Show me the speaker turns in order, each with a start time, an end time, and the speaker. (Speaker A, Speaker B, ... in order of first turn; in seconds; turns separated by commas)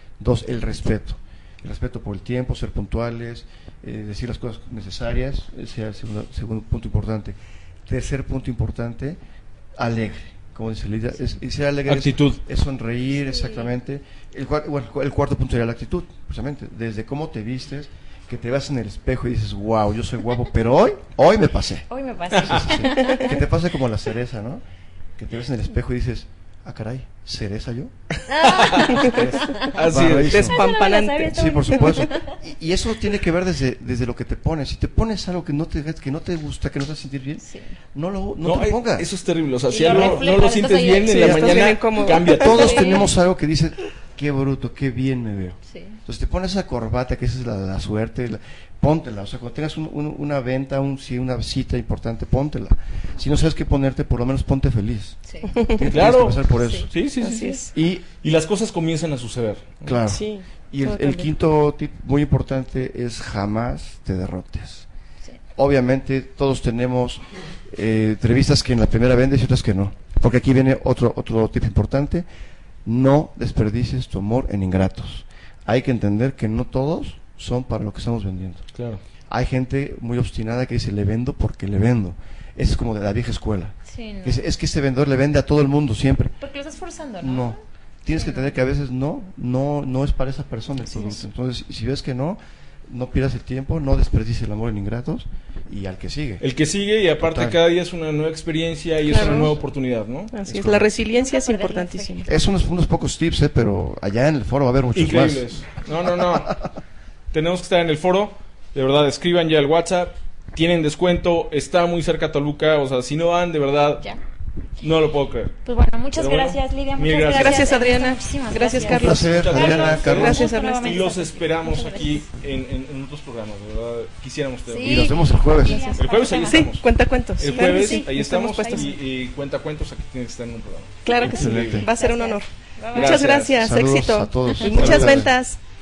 Speaker A: 0.2-9.2, Speaker A: 9.8-21.9, Speaker B: 11.9-12.4, Speaker C: 13.3-13.7, Speaker C: 21.9-23.4, Speaker B: 22.3-22.8, Speaker A: 22.4-24.6, Speaker A: 25.2-27.9, Speaker C: 28.3-29.8, Speaker B: 28.4-30.5, Speaker D: 28.9-29.2, Speaker A: 29.1-30.6, Speaker D: 30.4-31.8, Speaker C: 30.4-32.4, Speaker A: 31.2-37.4, Speaker C: 37.4-37.8, Speaker A: 37.9-39.1, Speaker B: 38.4-43.0, Speaker C: 39.7-41.5, Speaker D: 41.0-42.8, Speaker A: 41.1-41.4, Speaker A: 42.2-56.9, Speaker C: 42.5-43.1, Speaker C: 45.7-46.0, Speaker C: 55.3-55.5, Speaker B: 55.8-57.7, Speaker C: 56.6-57.4, Speaker D: 57.2-57.7, Speaker A: 57.7-58.0, Speaker B: 58.2-60.0, Speaker A: 59.8-64.8, Speaker D: 60.1-61.3, Speaker A: 65.5-72.2, Speaker A: 72.8-78.7, Speaker B: 78.8-79.0, Speaker A: 79.3-86.3, Speaker C: 83.9-84.4, Speaker C: 86.4-87.6, Speaker A: 87.2-96.4, Speaker C: 88.1-88.5, Speaker B: 96.4-100.3, Speaker A: 97.2-97.6, Speaker D: 99.1-99.5, Speaker D: 100.3-102.3, Speaker A: 100.5-100.9, Speaker C: 101.1-102.3, Speaker A: 102.3-105.5, Speaker B: 104.9-106.6, Speaker A: 106.0-106.5, Speaker B: 107.3-114.0, Speaker B: 114.8-115.5, Speaker C: 115.6-122.3, Speaker B: 116.2-117.7, Speaker D: 117.3-121.0, Speaker A: 118.8-120.4, Speaker B: 118.8-125.1, Speaker C: 124.7-126.7, Speaker A: 124.8-125.9, Speaker D: 125.6-128.9, Speaker B: 126.0-126.8, Speaker B: 127.4-131.8, Speaker C: 127.6-128.1, Speaker D: 131.0-135.6, Speaker A: 131.3-131.9, Speaker C: 131.9-133.2, Speaker B: 132.9-133.6, Speaker A: 133.6-135.3, Speaker B: 134.7-135.3